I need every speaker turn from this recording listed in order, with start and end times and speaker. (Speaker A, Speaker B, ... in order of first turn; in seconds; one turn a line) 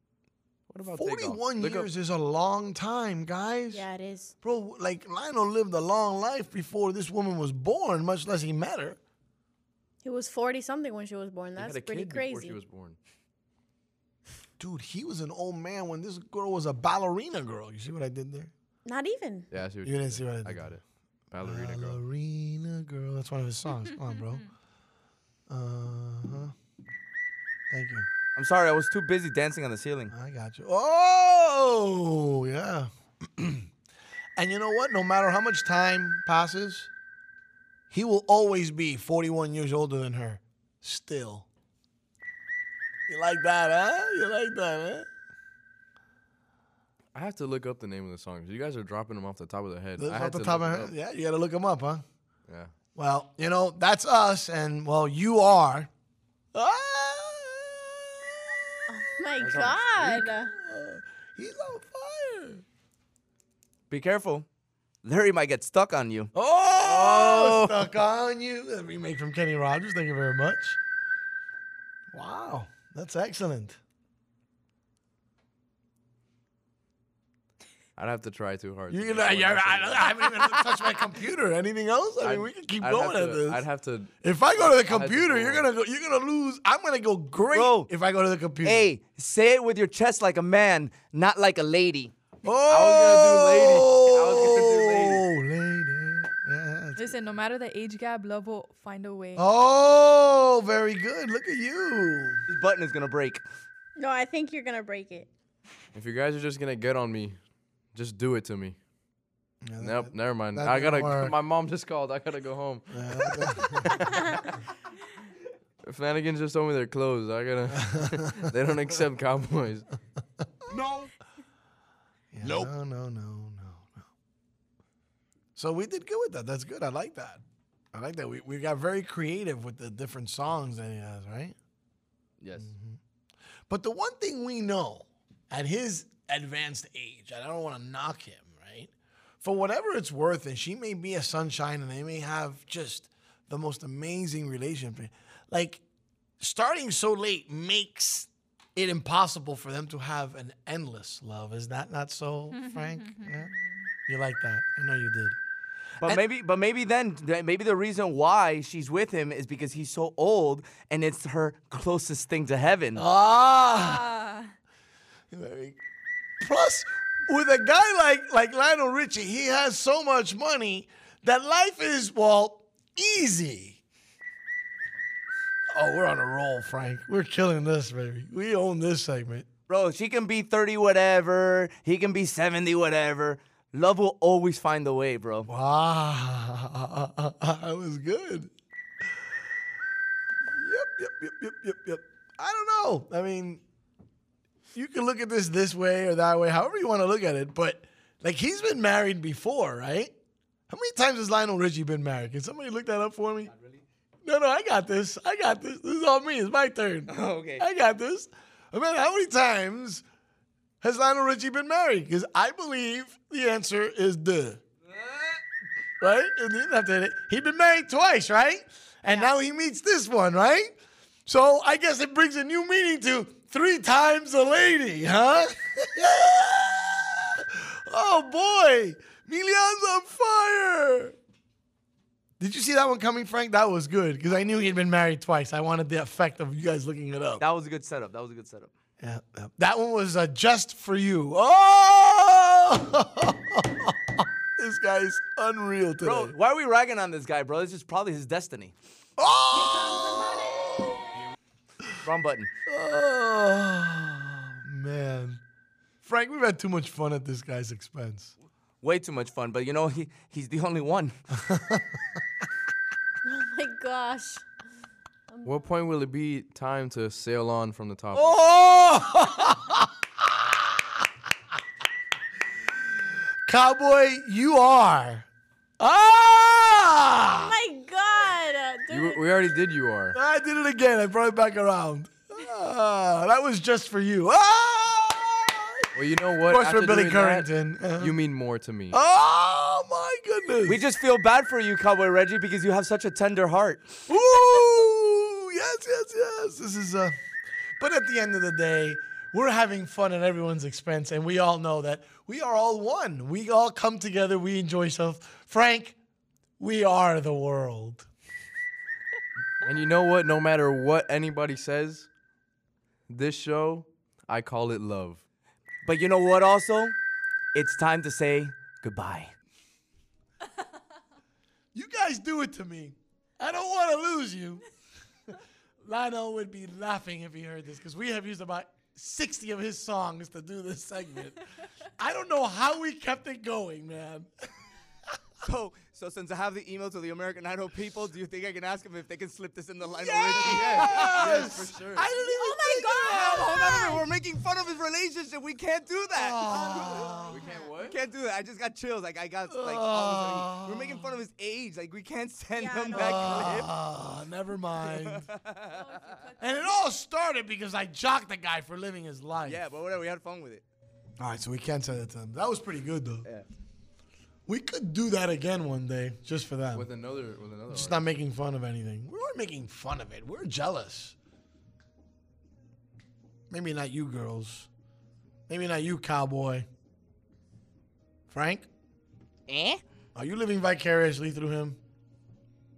Speaker A: 0.7-1.9
Speaker B: 0.9-3.9
Speaker C: 3.7-4.3
Speaker B: 4.4-9.0
Speaker C: 10.0-12.6
Speaker A: 11.6-13.0
Speaker B: 14.6-18.5
Speaker C: 18.9-19.5
Speaker A: 19.5-22.0
Speaker B: 19.8-20.8
Speaker B: 21.4-24.4
Speaker B: 25.5-26.5
Speaker B: 27.7-28.1
Speaker D: 28.4-30.1
Speaker B: 30.1-33.7
Speaker B: 34.4-36.9
Speaker B: 37.9-41.5
Speaker B: 43.1-45.1
Speaker A: 47.1-50.9
Speaker B: 50.0-52.0
Speaker A: 52.5-52.7
Speaker B: 53.0-55.9
Speaker B: 56.5-62.6
Speaker C: 58.9-60.5
Speaker A: 59.4-60.3
Speaker D: 63.9-64.5
Speaker D: 65.0-66.3
Speaker B: 66.3-70.8
Speaker D: 66.9-67.3
Speaker A: 67.3-67.6
Speaker B: 72.1-73.8
Speaker A: 78.0-80.2
Speaker B: 78.9-83.6
Speaker A: 82.2-85.7
Speaker B: 84.2-88.9
Speaker D: 87.5-87.9
Speaker D: 88.6-92.1
Speaker B: 92.4-97.2
Speaker A: 92.7-95.2
Speaker E: 97.0-99.4
Speaker B: 99.3-102.4
Speaker D: 102.5-103.4
Speaker C: 104.0-105.3
Speaker A: 105.9-107.4
Speaker A: 107.9-108.8
Speaker B: 109.6-111.3
Speaker A: 109.8-112.9
Speaker B: 112.9-114.0
Speaker C: 113.9-114.4
Speaker A: 115.8-119.9
Speaker B: 117.8-118.4
Speaker B: 122.3-124.1
Speaker B: 125.6-127.4
Speaker B: 127.9-131.6
Speaker D: 132.4-132.7
Speaker B: 132.6-133.0
Speaker B: 133.7-145.8
Speaker B: 146.4-153.5
Speaker E: 152.7-153.3
Speaker B: 154.1-155.4
Speaker D: 156.0-163.0
Speaker B: 163.0-164.1
Speaker E: 163.9-164.4
Speaker B: 165.3-165.8
Speaker B: 166.4-173.8
Speaker B: 175.7-179.5
Speaker D: 179.7-185.5
Speaker B: 185.5-188.5
Speaker B: 190.5-193.6
Speaker B: 194.7-200.1
Speaker B: 200.7-203.5
Speaker B: 204.2-210.0
Speaker D: 207.1-207.6
Speaker B: 210.8-214.6
Speaker D: 214.9-215.3
Speaker B: 216.0-231.2
Speaker B: 232.4-237.4
Speaker D: 237.4-238.7
Speaker B: 239.0-246.3
Speaker D: 246.0-248.7
Speaker B: 249.2-251.0
Speaker D: 252.0-252.5
Speaker B: 252.7-255.4
Speaker B: 256.0-258.3
Speaker D: 258.8-261.2
Speaker B: 261.4-261.9
Speaker C: 263.2-264.4
Speaker C: 265.3-265.7
Speaker A: 265.4-268.4
Speaker B: 268.1-270.9
Speaker B: 273.5-275.3
Speaker B: 275.8-277.6
Speaker C: 277.3-279.4
Speaker A: 278.9-280.2
Speaker B: 280.1-285.9
Speaker A: 285.9-289.0
Speaker B: 286.4-288.2
Speaker B: 288.9-290.8
Speaker D: 290.7-294.0
Speaker B: 294.1-297.2
Speaker B: 297.8-306.0
Speaker B: 306.6-308.1
Speaker A: 309.6-312.1
Speaker A: 313.1-315.2
Speaker D: 315.9-316.9
Speaker D: 317.5-319.3
Speaker B: 321.7-324.6
Speaker B: 325.8-331.4
Speaker B: 332.0-334.3
Speaker D: 335.4-341.1
Speaker B: 339.9-344.0
Speaker A: 340.3-342.1
Speaker C: 342.2-343.9
Speaker D: 343.1-347.3
Speaker B: 346.1-347.5
Speaker A: 347.3-347.9
Speaker D: 347.9-353.7
Speaker B: 349.5-351.2
Speaker C: 352.6-353.6
Speaker B: 352.9-355.3
Speaker D: 354.8-356.0
Speaker B: 356.4-359.6
Speaker D: 359.4-360.6
Speaker B: 361.2-363.3
Speaker B: 364.5-366.9
Speaker A: 366.7-368.1
Speaker B: 367.7-371.2
Speaker B: 373.5-374.7
Speaker B: 375.5-376.7
Speaker B: 378.3-378.7
Speaker D: 379.5-379.8
Speaker B: 380.1-381.8